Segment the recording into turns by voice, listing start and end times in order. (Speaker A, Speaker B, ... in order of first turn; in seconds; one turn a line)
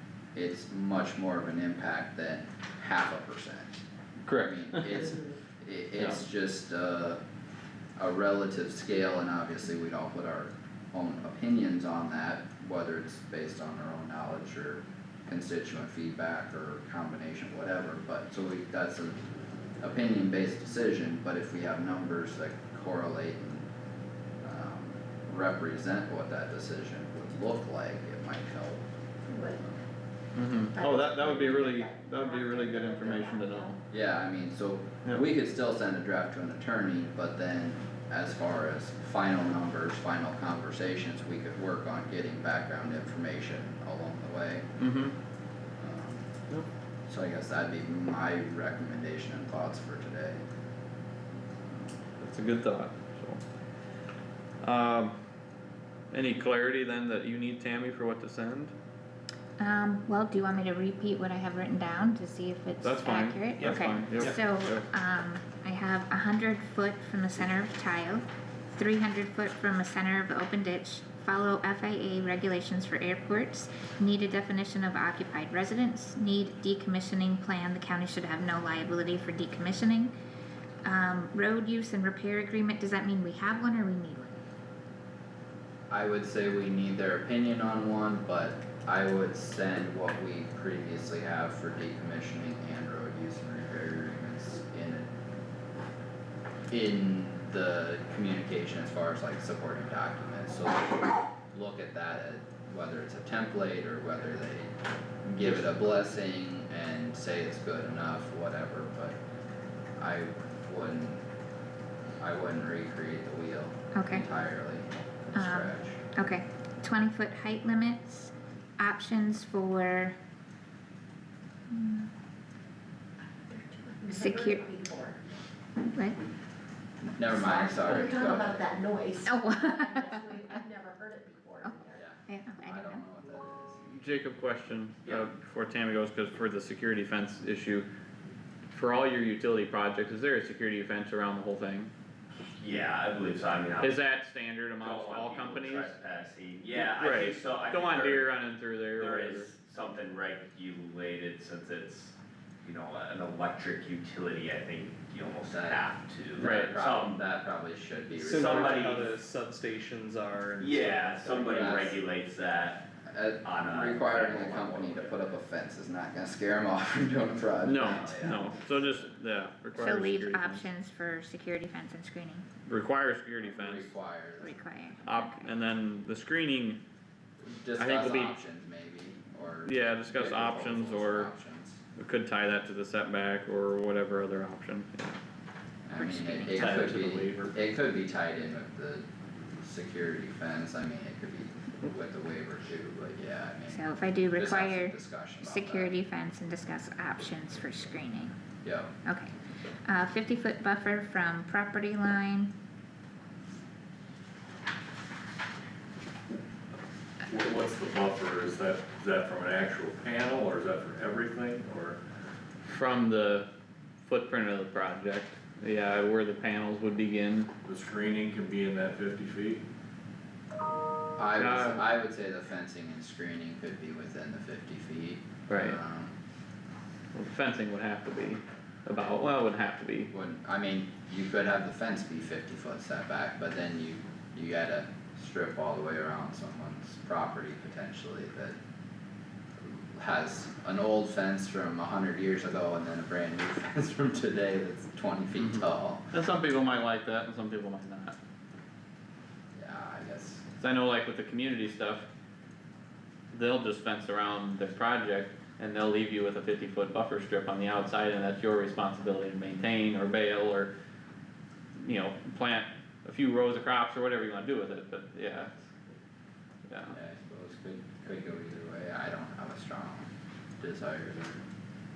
Speaker A: 0.3-3.8
Speaker B: 4.3-5.0
Speaker A: 4.3-7.2
Speaker A: 8.0-19.2
Speaker A: 19.8-23.7
Speaker A: 24.4-28.9
Speaker C: 29.3-29.6
Speaker B: 30.3-33.8
Speaker C: 30.7-33.7
Speaker A: 33.9-44.7
Speaker B: 44.8-45.1
Speaker A: 45.8-46.3
Speaker A: 47.1-50.4
Speaker A: 51.6-52.0
Speaker B: 52.2-53.4
Speaker B: 54.6-55.2
Speaker B: 56.1-58.7
Speaker D: 59.6-80.1
Speaker B: 62.8-64.9
Speaker E: 63.6-64.3
Speaker D: 80.8-84.4
Speaker A: 85.9-95.1
Speaker A: 96.7-109.2
Speaker A: 110.0-111.2
Speaker A: 112.2-116.0
Speaker D: 113.9-114.2
Speaker D: 115.3-120.2
Speaker D: 121.7-122.1
Speaker C: 123.5-125.2
Speaker D: 124.1-124.8
Speaker D: 125.9-126.2
Speaker A: 127.0-128.7
Speaker C: 127.3-132.0
Speaker D: 129.2-130.6
Speaker D: 131.6-133.0
Speaker A: 131.9-133.8
Speaker B: 133.9-137.9
Speaker B: 138.7-141.9
Speaker F: 142.6-144.0
Speaker B: 143.8-145.9
Speaker F: 144.8-148.3
Speaker B: 146.8-149.5
Speaker F: 149.0-157.2
Speaker A: 155.5-155.8
Speaker A: 156.4-158.9
Speaker B: 156.4-156.7
Speaker E: 158.1-161.5
Speaker F: 158.3-159.1
Speaker F: 160.6-162.8
Speaker A: 161.4-162.0
Speaker A: 163.0-168.8
Speaker F: 163.4-165.2
Speaker B: 167.6-170.7
Speaker F: 167.9-168.5
Speaker D: 169.8-172.5
Speaker B: 172.7-173.9
Speaker A: 173.4-174.5
Speaker D: 174.4-175.5
Speaker B: 175.0-176.8
Speaker A: 177.5-181.8
Speaker B: 177.8-178.3
Speaker B: 179.7-181.3
Speaker B: 182.0-185.2
Speaker A: 185.8-193.8
Speaker D: 186.0-186.8
Speaker G: 186.5-187.5
Speaker D: 193.7-198.3
Speaker A: 194.3-196.0
Speaker A: 198.6-198.9
Speaker D: 199.1-199.3
Speaker D: 199.8-202.5
Speaker G: 207.3-212.0
Speaker B: 212.7-213.5
Speaker B: 214.1-217.5
Speaker G: 217.7-219.6
Speaker A: 221.2-226.2
Speaker B: 221.4-221.8
Speaker B: 225.5-225.8
Speaker B: 227.1-230.1
Speaker A: 230.1-238.6
Speaker A: 239.6-246.1
Speaker B: 245.4-248.2
Speaker A: 249.6-250.4
Speaker B: 250.6-252.1
Speaker B: 253.3-260.7
Speaker B: 261.8-265.5
Speaker B: 266.7-266.9
Speaker A: 266.9-271.4